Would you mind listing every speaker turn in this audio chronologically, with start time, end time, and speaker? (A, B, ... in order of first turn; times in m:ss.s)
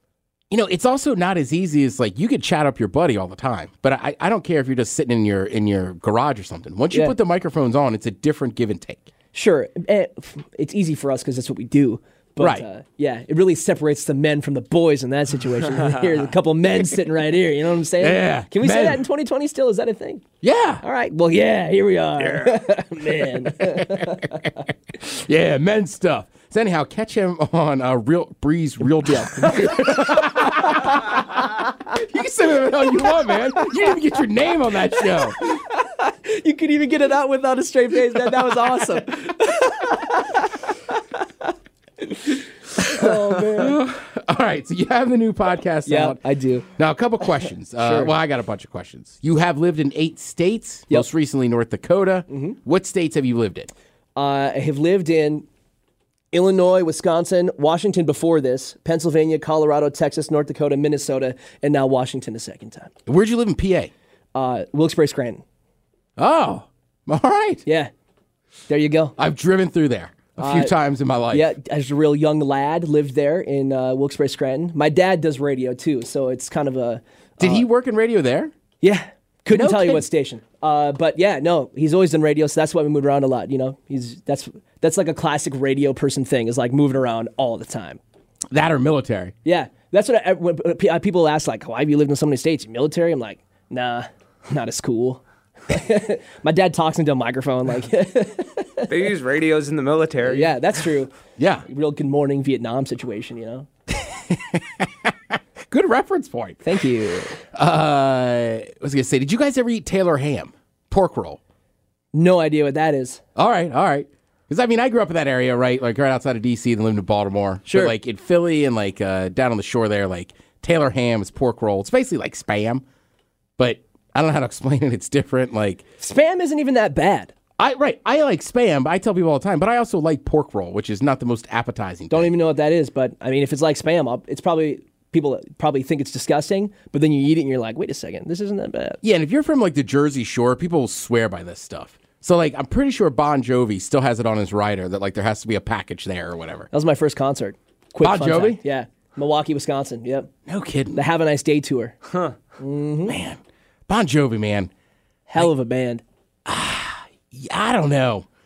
0:00.5-0:09.1 A
0:09.3-0:20.2 B
0:12.4-0:12.7 A
0:18.0-0:19.0 A
0:20.4-0:20.8 A
0:20.8-0:24.5 B
0:23.4-0:35.5 A
0:29.3-0:30.9 B
0:32.6-0:33.9 B
0:34.9-0:40.6 B
0:42.0-0:43.8 B
0:43.0-0:46.2 A
0:45.9-0:46.7 B
0:46.8-0:53.7 A
0:47.8-0:48.1 B
0:52.3-0:52.6 B
0:54.2-0:55.5 B
0:56.3-1:02.9 B
1:03.1-1:03.9 A
1:04.3-1:05.4 B
1:06.2-1:07.6 A
1:07.7-1:07.9 B
1:08.7-1:09.2 B
1:09.2-1:11.5 A
1:10.4-1:10.7 B
1:11.3-1:17.7 B
1:17.4-1:18.5 A
1:18.8-1:28.0 B
1:19.5-1:20.0 A
1:28.5-1:29.3 A
1:29.4-1:38.9 B
1:38.8-1:40.5 C
1:40.2-1:41.1 B
1:41.4-1:41.6 A
1:41.6-1:43.7 B
1:43.9-1:46.7 A
1:46.6-1:47.4 B
1:47.5-1:51.4 A
1:52.1-1:53.2 B
1:53.4-2:02.8 A
1:57.7-1:58.0 B
2:03.6-2:05.8 A
2:06.0-2:07.3 B
2:07.6-2:12.3 A
2:12.1-2:19.0 B
2:19.0-2:26.7 A
2:26.7-2:30.3 B
2:28.0-2:28.6 A
2:30.5-2:31.0 A
2:30.9-2:32.0 B
2:32.1-2:32.4 C
2:32.6-2:33.2 B
2:33.1-2:34.7 A
2:35.3-2:36.0 B
2:36.5-2:38.3 A